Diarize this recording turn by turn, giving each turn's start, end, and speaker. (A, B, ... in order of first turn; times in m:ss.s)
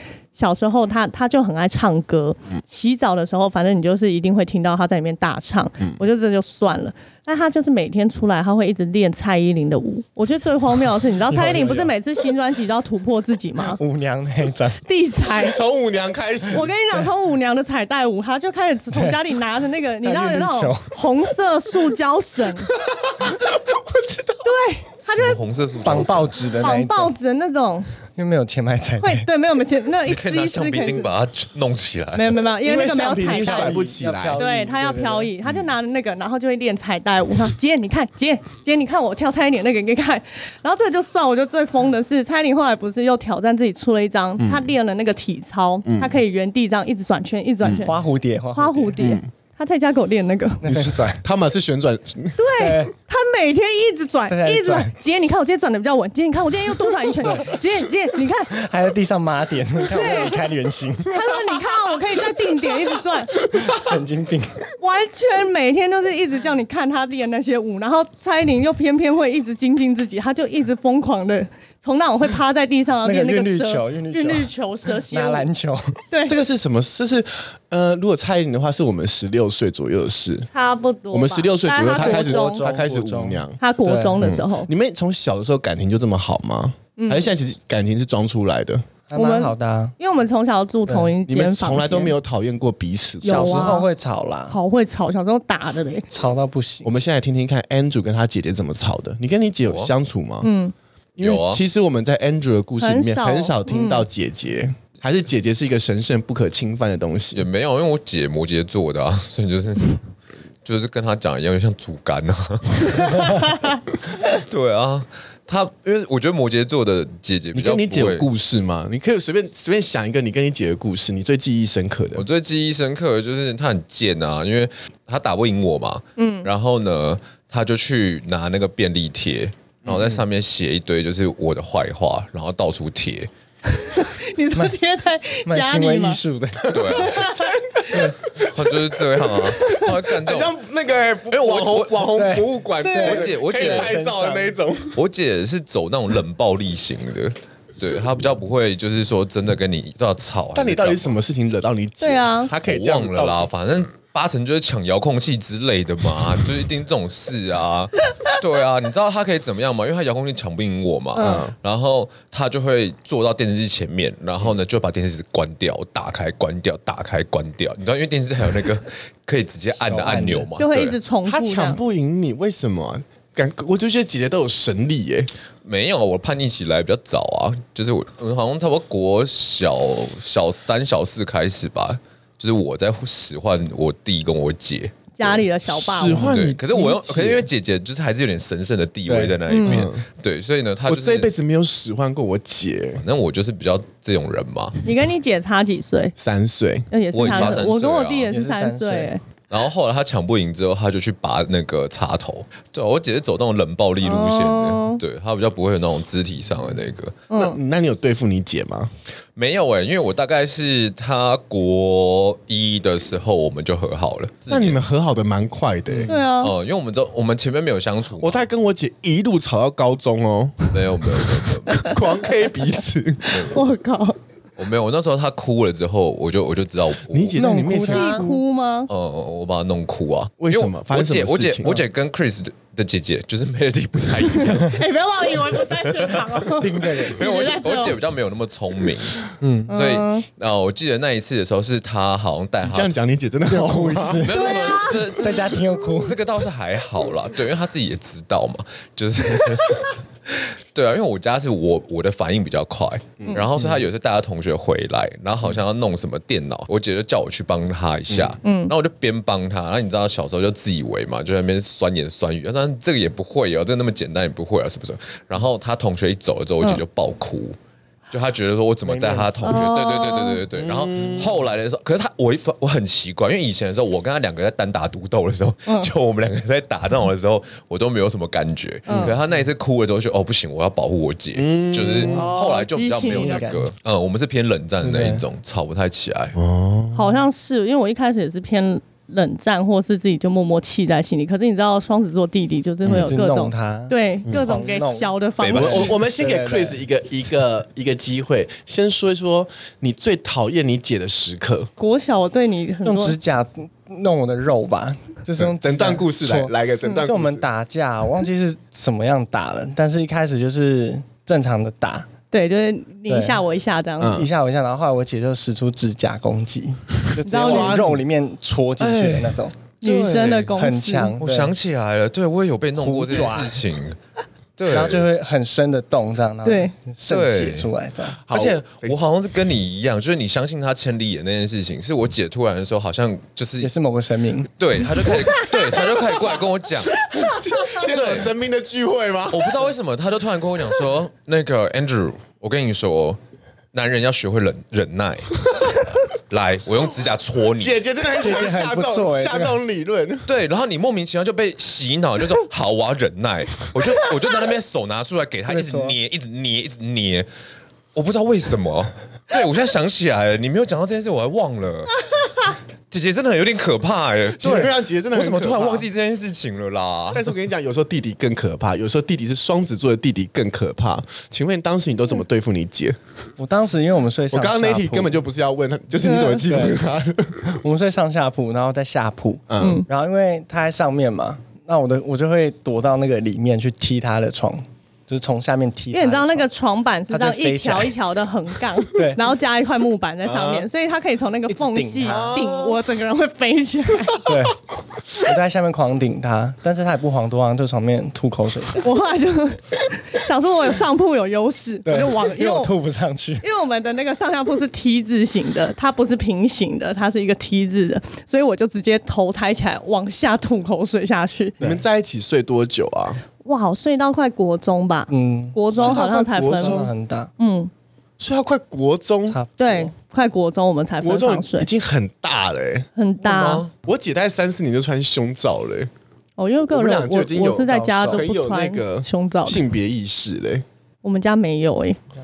0:00.3-0:13.8 A
0:11.2-0:11.9 B
0:13.8-0:14.8 B
0:14.9-0:15.6 A
0:15.2-0:16.7 C
0:16.5-0:22.7 A
0:18.9-0:19.2 B
0:20.0-0:21.0 B
0:22.7-0:24.4 C
0:24.4-0:25.4 A
0:25.0-0:26.5 D
0:25.8-0:27.1 B
0:26.6-0:27.9 A
0:28.2-0:29.3 B
0:29.0-0:31.1 A
0:30.0-0:32.4 D
0:32.1-0:33.8 A
0:32.6-0:34.4 C
0:33.2-0:35.3 B
0:34.3-0:48.0 A
0:44.4-0:44.7 C
0:45.8-0:46.2 C
0:47.6-0:47.9 C
0:47.7-0:49.1 B
0:48.5-0:50.6 A
0:49.0-0:49.2 C
0:50.6-0:51.2 B
0:50.7-0:52.6 C
0:52.4-0:58.5 A
0:52.6-0:52.9 B
0:54.3-0:54.9 B
0:57.2-0:57.5 B
0:58.5-1:01.2 B
0:59.8-1:00.5 A
1:01.1-1:03.3 A
1:03.5-1:04.6 B
1:04.8-1:15.5 A
1:13.0-1:14.5 B
1:15.1-1:16.0 B
1:16.1-1:16.4 A
1:16.3-1:20.5 C
1:20.5-1:22.6 A
1:21.1-1:23.6 C
1:21.9-1:24.2 B
1:23.6-1:24.7 A
1:24.2-1:28.9 C
1:27.0-1:27.3 A
1:29.1-1:29.9 B
1:29.1-1:32.1 A
1:30.9-1:31.1 B
1:31.2-1:33.7 C
1:33.2-1:33.9 A
1:33.2-1:34.6 B
1:34.5-1:36.0 A
1:36.1-1:36.9 B
1:36.8-1:40.5 C
1:39.6-1:39.9 D
1:40.4-1:40.7 A
1:41.2-1:47.5 C
1:41.2-1:41.6 D
1:42.8-1:44.0 A
1:47.3-1:50.0 D
1:50.6-1:53.6 D
1:54.1-1:58.3 D
1:57.5-2:02.2 C
2:02.1-2:13.3 D
2:06.2-2:06.5 A
2:09.8-2:10.2 C
2:13.7-2:16.2 A
2:15.4-2:16.7 B
2:16.7-2:25.0 C
2:16.7-2:17.3 D
2:16.9-2:17.5 A
2:17.9-2:18.2 B
2:18.3-2:20.5 D
2:19.4-2:19.9 A
2:21.3-2:22.1 D
2:22.1-2:22.5 B
2:22.8-2:23.3 A
2:22.9-2:24.0 D
2:23.6-2:24.5 B
2:24.9-2:31.2 D
2:30.5-2:33.5 C
2:32.0-2:32.5 A
2:32.6-2:51.0 D
2:41.2-2:41.4 A
2:41.2-2:41.5 C
2:49.7-2:50.5 B
2:50.6-2:51.8 A
2:51.2-2:55.3 C
2:55.6-3:05.4 D
3:05.2-3:06.2 A
3:05.7-3:07.5 C
3:06.1-3:11.3 D
3:09.1-3:09.4 B
3:09.5-3:09.8 A
3:09.6-3:10.0 C
3:10.8-3:13.0 C
3:13.0-3:14.8 D
3:14.8-3:16.1 A
3:16.2-3:17.7 C
3:16.9-3:19.2 A
3:17.1-3:18.3 D
3:18.3-3:19.1 B
3:19.5-3:27.2 D
3:24.0-3:25.0 A
3:27.3-3:27.6 A
3:27.3-3:28.9 C
3:29.3-3:34.8 D
3:34.5-3:36.2 C
3:36.1-3:36.5 A
3:36.1-3:38.4 D
3:38.2-3:43.5 C
3:40.7-3:41.9 D
3:43.3-3:43.6 D
3:43.4-3:44.2 A
3:44.6-3:47.4 D
3:47.1-3:48.4 C
3:47.4-3:48.3 B
3:47.7-3:48.9 A
3:48.9-3:54.9 D
3:50.4-3:51.8 C
3:54.3-3:58.0 A
3:55.5-4:02.9 D
3:56.6-3:57.3 B
3:59.4-3:59.7 B
3:59.7-4:00.2 A
4:02.6-4:04.5 C
4:03.5-4:04.6 B
4:04.2-4:27.6 D
4:04.3-4:05.4 A
4:05.2-4:06.2 B
4:13.2-4:13.8 C
4:18.1-4:18.4 C
4:18.4-4:18.7 A
4:28.1-4:46.4 D
4:28.8-4:29.7 B
4:29.4-4:30.4 A
4:30.5-4:31.4 C
4:38.9-4:39.1 C
4:41.3-4:42.2 C
4:42.1-4:42.4 B
4:42.1-4:43.4 A
4:42.9-4:43.7 B
4:44.8-4:45.2 B
4:46.3-4:47.1 C
4:46.9-4:55.9 A
4:52.9-4:55.1 B
4:55.4-4:56.0 D
4:55.5-5:01.7 C
4:55.9-4:56.8 B
5:01.8-5:03.2 A
5:02.8-5:12.1 B
5:05.4-5:07.4 C
5:12.3-5:14.2 A
5:13.1-5:13.4 B
5:14.0-5:14.3 C
5:14.1-5:19.6 B
5:17.2-5:17.8 A
5:17.2-5:18.0 C
5:18.8-5:20.6 D
5:19.8-5:21.2 A
5:20.5-5:21.5 B
5:21.2-5:24.0 D
5:22.8-5:23.6 B
5:24.6-5:25.1 D
5:24.7-5:28.2 B
5:26.4-5:26.7 A
5:27.1-5:27.7 D
5:28.2-5:29.0 C
5:28.3-5:33.7 D
5:33.6-5:34.5 B
5:34.6-5:38.3 D
5:35.3-5:35.9 A
5:36.9-5:37.8 A
5:37.1-5:39.6 C
5:39.3-5:43.2 D
5:43.7-5:47.8 D
5:47.6-5:50.3 C
5:48.2-5:49.6 B
5:50.2-5:57.3 D
5:55.5-5:56.0 B
5:57.9-6:02.0 D
6:02.9-6:07.3 D
6:04.3-6:05.9 C
6:07.1-6:13.0 C
6:13.4-6:15.2 B
6:14.3-6:17.5 C
6:16.0-6:16.4 A
6:16.5-6:16.8 B
6:17.4-6:26.5 B
6:19.5-6:19.8 C
6:19.6-6:19.8 A
6:25.9-6:34.3 A
6:27.1-6:27.9 B
6:28.9-6:29.2 B
6:30.2-6:30.7 C
6:31.5-6:32.4 B
6:32.0-6:32.8 C
6:34.2-6:34.6 B
6:35.1-6:38.9 B
6:38.8-6:42.7 A
6:41.8-6:43.4 B
6:43.4-6:51.6 A
6:51.6-6:53.2 C
6:53.4-6:57.7 A
6:55.1-6:57.3 B
6:55.7-6:56.9 C
6:58.2-6:59.4 C
6:59.3-6:59.9 B
6:59.6-7:01.7 A
7:01.0-7:05.9 C
7:03.0-7:03.6 A
7:03.3-7:03.6 D
7:06.4-7:09.6 A
7:06.7-7:10.6 C
7:07.6-7:08.3 B
7:11.0-7:12.0 A